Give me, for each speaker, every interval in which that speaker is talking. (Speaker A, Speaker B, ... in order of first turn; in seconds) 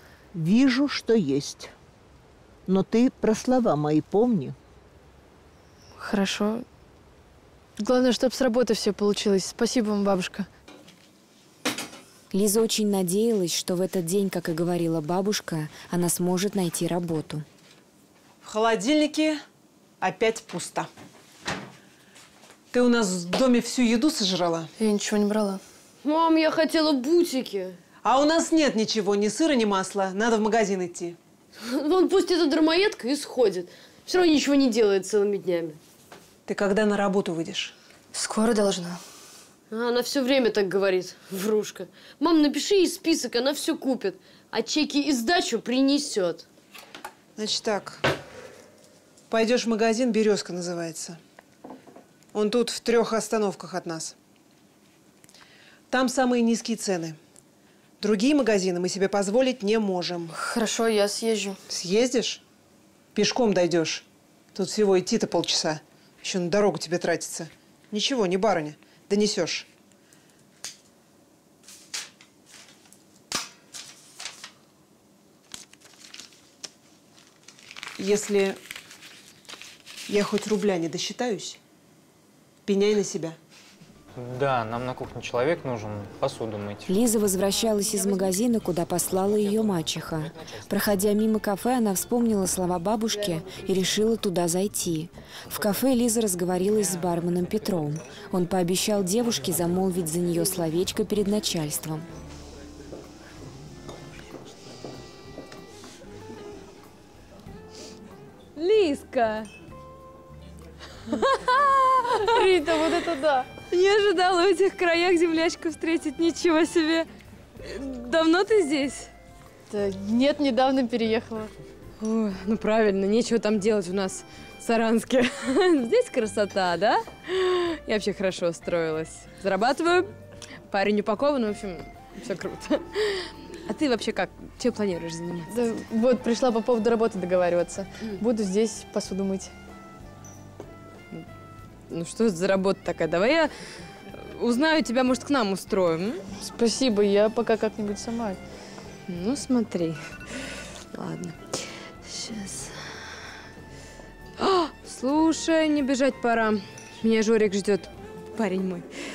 Speaker A: 0.3-1.7, 2.7-4.6
Speaker B: 6.0-6.6, 7.8-10.5, 24.8-25.6, 38.1-39.0, 60.3-61.6, 93.1-93.4, 112.2-113.5, 119.7-121.5, 135.5-139.5, 146.4-148.4
Speaker C: 12.3-17.4, 86.9-102.1
Speaker D: 18.4-19.4, 20.0-20.9, 22.7-24.7, 28.0-31.2, 36.5-37.7, 47.4-48.0, 49.3-51.2, 52.3-54.1, 55.9-57.2, 58.0-60.3, 61.7-62.4, 63.1-69.7, 78.0-78.6, 80.1-81.6, 82.7-83.4
Speaker E: 26.0-27.8, 31.6-35.8, 39.7-46.5
Speaker F: 84.2-86.9
Speaker G: 108.6-109.5, 113.7-117.0, 117.7-119.1, 122.0-130.1, 130.7-135.5, 141.9-143.5, 144.2-146.2, 149.1-150.1, 150.9-151.4, 152.1-152.7, 154.4-158.9